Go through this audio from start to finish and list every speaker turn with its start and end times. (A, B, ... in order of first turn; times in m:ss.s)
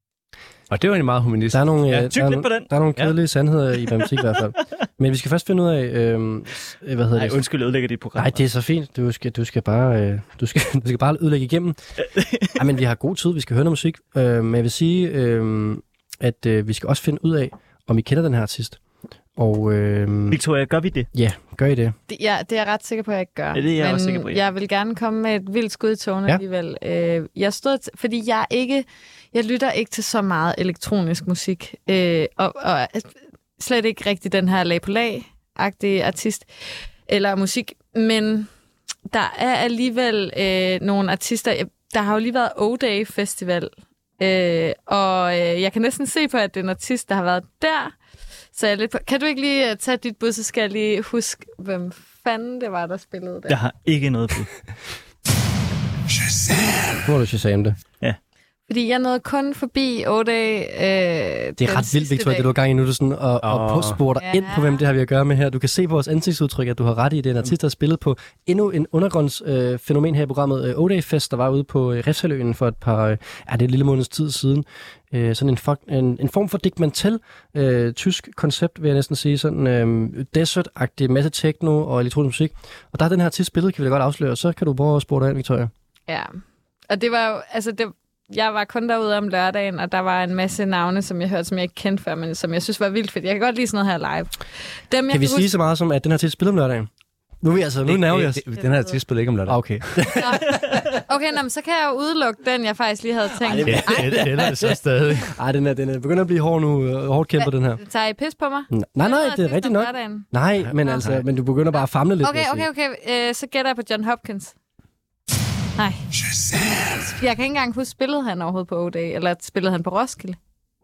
0:00.7-0:02.1 A
0:01.5-0:07.4 B
0:02.0-0:02.7 C
0:07.1-0:08.4 C
0:08.2-0:11.8 B
0:12.2-0:12.5 C
0:12.5-0:18.8 B
0:19.4-0:20.4 B
0:20.3-0:21.1 C
0:21.1-0:21.9 B
0:22.1-0:36.5 D
0:23.5-0:24.4 C
0:37.1-0:38.5 D
0:39.1-0:48.0 D
0:48.5-0:53.6 D
0:53.5-0:54.5 C
0:57.0-0:57.8 B
0:58.7-1:02.5 D
1:01.6-1:25.7 B
1:03.4-1:04.0 A
1:04.2-1:04.8 D
1:26.1-1:35.5 D
1:35.1-1:36.9 B
1:37.4-1:38.4 B
1:37.9-1:40.2 A
1:39.4-1:40.7 B
1:40.2-1:44.2 D
1:43.5-1:47.8 B
1:43.6-1:45.4 A
1:47.4-1:50.3 D
1:48.7-1:52.7 B
1:50.6-1:51.2 A
1:52.2-1:54.5 D
1:55.8-1:56.0 D
1:57.1-2:00.4 D